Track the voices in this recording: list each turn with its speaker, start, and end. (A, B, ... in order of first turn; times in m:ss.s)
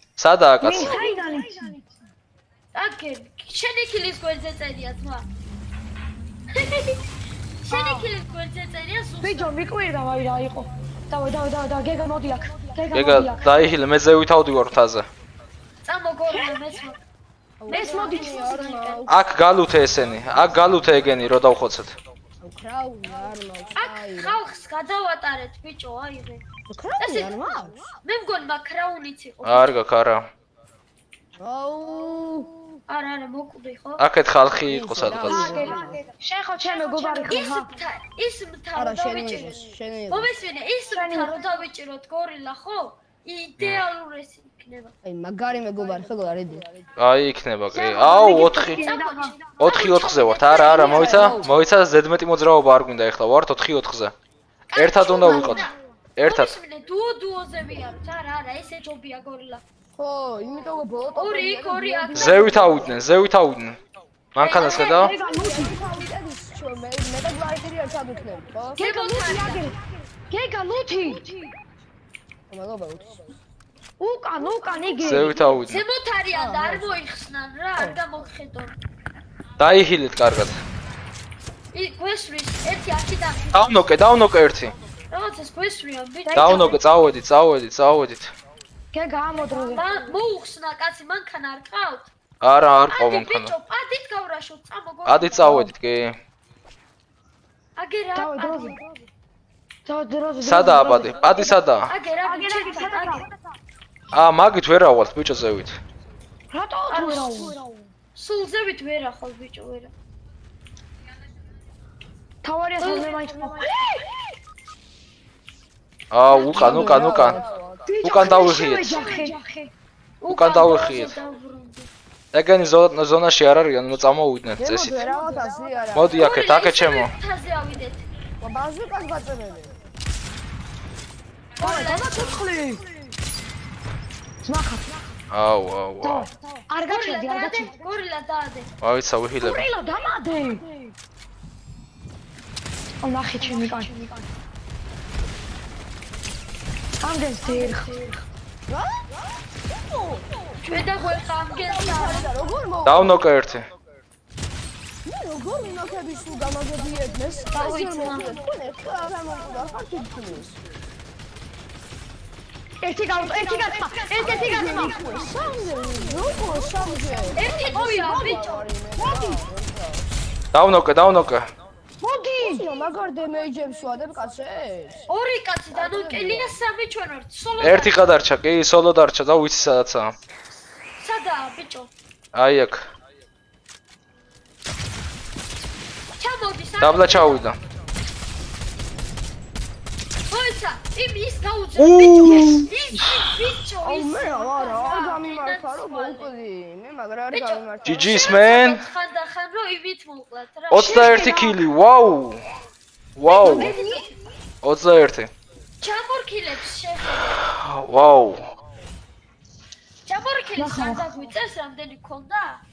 0:00.2-0:01.0 A
0:00.6-0:01.8 B
0:02.7-0:05.3 C
0:06.5-0:07.0 C
0:07.6-0:09.5 C
0:07.7-0:08.1 B
0:09.2-0:13.4 B
0:12.9-0:15.1 A
0:15.9-0:17.0 C
0:16.3-0:16.8 B
0:17.6-0:19.2 D
0:17.7-0:19.2 C
0:17.7-0:18.3 B
0:19.1-0:22.0 A
0:22.4-0:24.4 D
0:23.8-0:26.4 C
0:26.7-0:27.9 D
0:27.0-0:27.3 C
0:28.0-0:29.8 C
0:29.4-0:30.3 A
0:31.4-0:32.5 D
0:32.9-0:34.1 C
0:34.0-0:35.6 A
0:34.6-0:36.0 D
0:35.3-0:37.7 B
0:36.6-0:44.9 C
0:38.7-0:40.3 D
0:40.9-0:41.5 B
0:43.6-0:43.8 A
0:45.0-0:46.7 D
0:47.0-0:48.9 A
0:47.7-0:49.4 B
0:48.2-0:51.6 C
0:49.6-0:54.1 A
0:50.6-0:51.6 D
0:54.7-0:59.6 C
0:54.7-0:56.6 A
0:55.2-0:55.7 B
1:00.0-1:03.0 D
1:01.1-1:03.0 C
1:02.1-1:03.8 A
1:04.3-1:05.1 A
1:04.4-1:05.2 C
1:04.8-1:05.8 B
1:05.0-1:08.8 D
1:08.8-1:09.7 C
1:08.8-1:11.3 B
1:12.5-1:13.4 D
1:14.0-1:15.4 B
1:14.7-1:15.4 D
1:15.0-1:15.8 A
1:15.6-1:18.8 C
1:16.3-1:17.0 D
1:19.6-1:20.6 A
1:21.7-1:23.8 C
1:23.5-1:24.8 A
1:25.1-1:26.8 C
1:26.2-1:26.8 B
1:26.3-1:28.3 A
1:28.9-1:30.2 B
1:29.7-1:32.1 C
1:32.4-1:33.5 A
1:32.9-1:35.6 C
1:35.1-1:36.2 A
1:35.4-1:35.7 B
1:37.8-1:38.8 C
1:38.1-1:39.0 B
1:39.9-1:41.6 B
1:40.4-1:41.9 A
1:41.9-1:43.2 C
1:42.2-1:43.4 B
1:44.1-1:45.8 A
1:46.5-1:47.9 B
1:46.9-1:47.6 C
1:48.2-1:49.9 C
1:52.4-1:53.9 B
1:52.8-1:53.6 C
1:56.1-1:57.4 A
1:56.3-1:57.3 C
1:56.5-1:58.2 D
1:57.9-1:59.7 B
1:58.0-1:59.0 A
1:58.8-1:59.3 C
2:00.2-2:01.9 C
2:00.3-2:01.2 A
2:02.3-2:05.0 A
2:04.6-2:06.2 D
2:05.9-2:07.1 A
2:06.1-2:08.1 C
2:08.4-2:09.7 D
2:11.6-2:12.5 C
2:11.6-2:12.9 B
2:14.4-2:15.2 B
2:15.3-2:16.3 A
2:16.0-2:17.9 B
2:16.8-2:18.7 C
2:18.8-2:19.7 A
2:19.4-2:20.9 B
2:23.0-2:24.2 B
2:23.4-2:24.0 C
2:27.0-2:28.2 B
2:27.5-2:28.0 C
2:28.7-2:29.2 D
2:29.7-2:30.3 D
2:30.6-2:32.3 C
2:31.5-2:33.2 D
2:32.8-2:33.7 A
2:35.0-2:40.6 D
2:37.5-2:38.4 C
2:42.8-2:45.5 B
2:44.1-2:50.2 D
2:46.1-2:48.3 B
2:47.4-2:48.7 C
2:49.0-2:49.4 B
2:50.5-2:51.5 A
2:52.0-2:52.8 B
2:52.4-2:55.1 D
2:55.1-2:58.1 C
2:55.7-2:56.6 D
2:57.6-3:00.2 A
3:01.0-3:01.9 C
3:02.3-3:02.9 A
3:06.2-3:07.4 C
3:06.8-3:07.6 A
3:10.3-3:16.3 C
3:11.8-3:12.7 A
3:13.8-3:18.2 D
3:17.3-3:21.1 C
3:17.8-3:18.9 A
3:20.7-3:22.4 A
3:20.7-3:21.6 B
3:23.2-3:23.8 A
3:23.2-3:24.1 C
3:23.4-3:24.1 B
3:24.6-3:25.3 A
3:25.8-3:27.4 C
3:27.5-3:28.5 A
3:30.1-3:32.6 C
3:30.6-3:31.3 B